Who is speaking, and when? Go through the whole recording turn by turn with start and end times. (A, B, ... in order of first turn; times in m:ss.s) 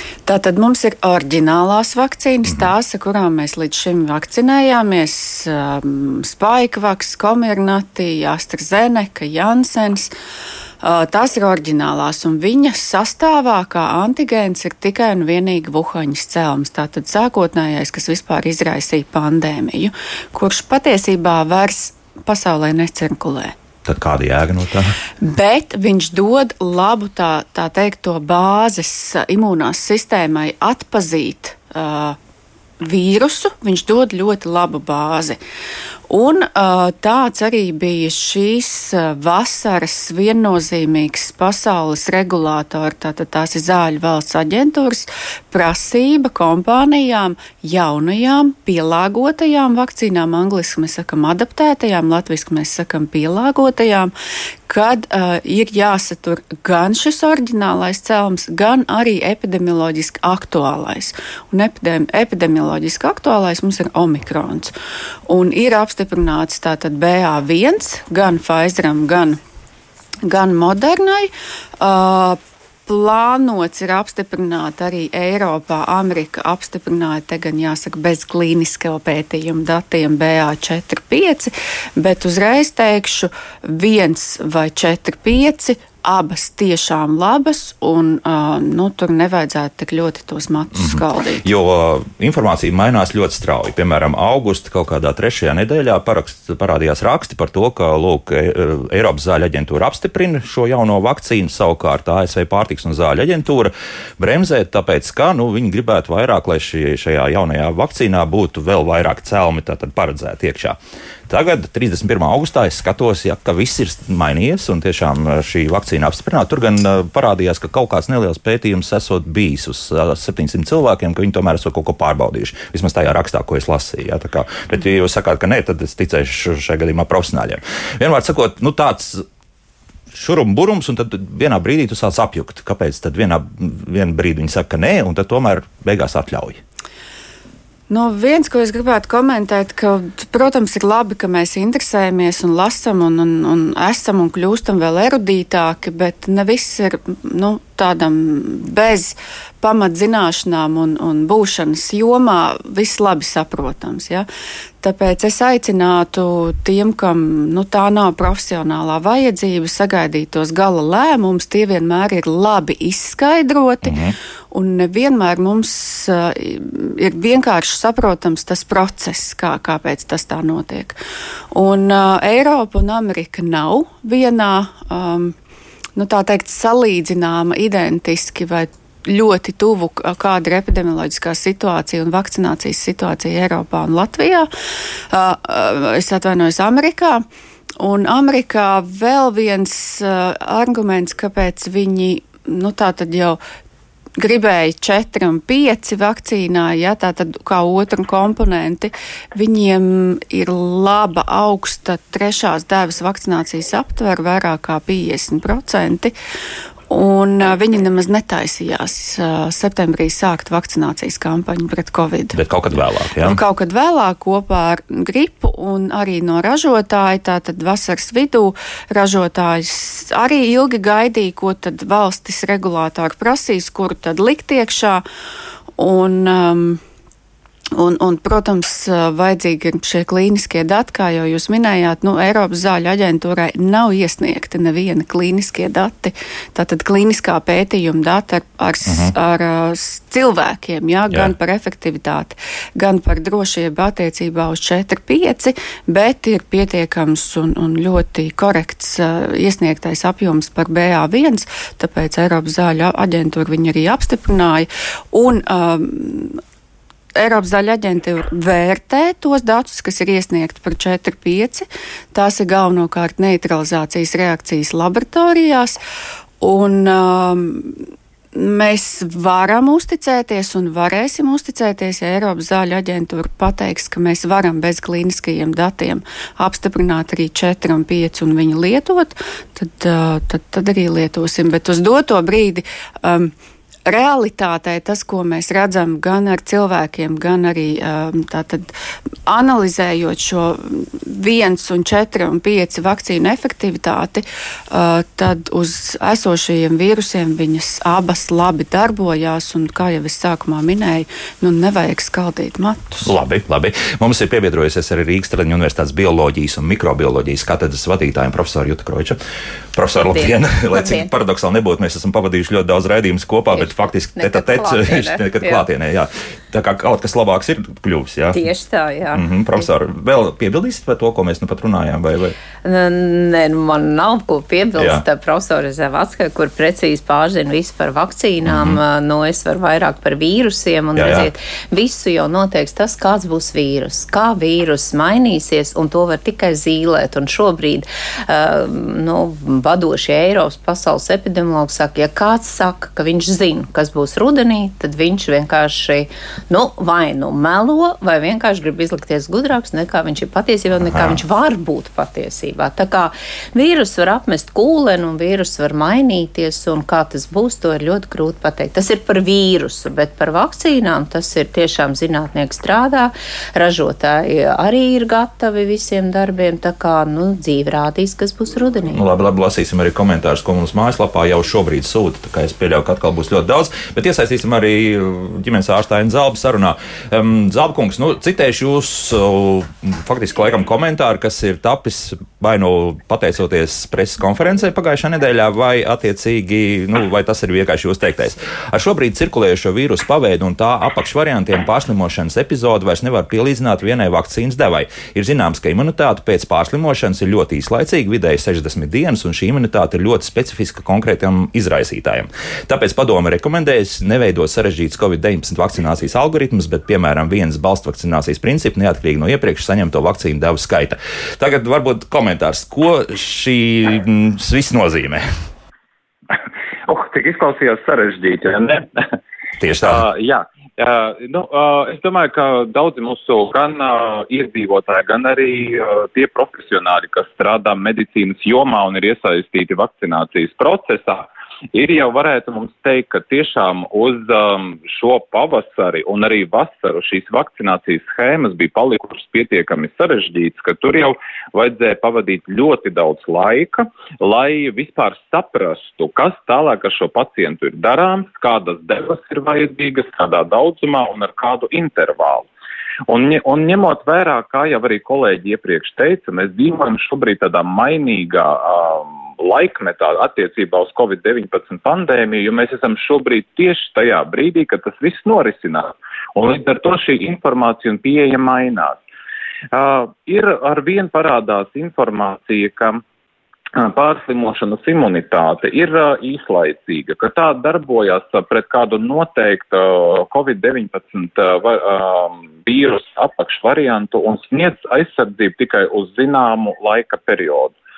0:00.3-0:10.1 A
0:02.5-0:02.7 B
0:10.8-0:23.5 A
0:23.8-0:25.0 B
0:25.2-0:32.2 A
0:32.8-0:35.4 A
0:36.1-0:54.1 A
0:54.7-1:04.7 A
1:05.3-1:09.4 A
1:10.2-1:31.4 A
1:30.8-1:50.8 B
1:51.3-2:09.2 B
2:10.1-2:16.6 B
2:17.9-2:34.3 A
2:34.8-2:44.0 A
2:43.8-2:44.1 B
2:44.5-2:51.0 A
2:51.5-2:55.3 A
2:56.0-3:04.5 A
3:05.1-3:07.2 A
3:07.8-3:13.4 A
3:14.2-3:26.1 A
3:26.9-3:32.4 A
3:32.3-3:33.4 B
3:33.2-3:45.0 A
3:45.8-3:46.8 A
3:47.8-4:16.4 A
3:58.8-3:59.1 B
4:17.1-4:25.8 A
4:26.4-4:27.8 A
4:28.3-4:43.3 A
4:43.9-4:48.7 A
4:49.3-5:03.1 A
5:03.0-5:09.2 B
5:09.7-5:18.4 B
5:10.0-5:11.1 C
5:13.5-5:15.6 C
5:18.3-5:19.6 C
5:19.1-5:22.4 B
5:22.6-6:09.0 C
5:24.8-5:25.0 B
5:28.5-5:28.8 B
5:31.0-5:31.3 B
5:50.8-5:51.2 B
6:08.9-6:55.2 B
6:56.9-6:58.9 D
6:59.6-7:00.1 B
6:59.8-7:32.5 D
7:33.1-7:49.0 D
7:49.7-7:53.0 D
7:53.8-8:07.8 D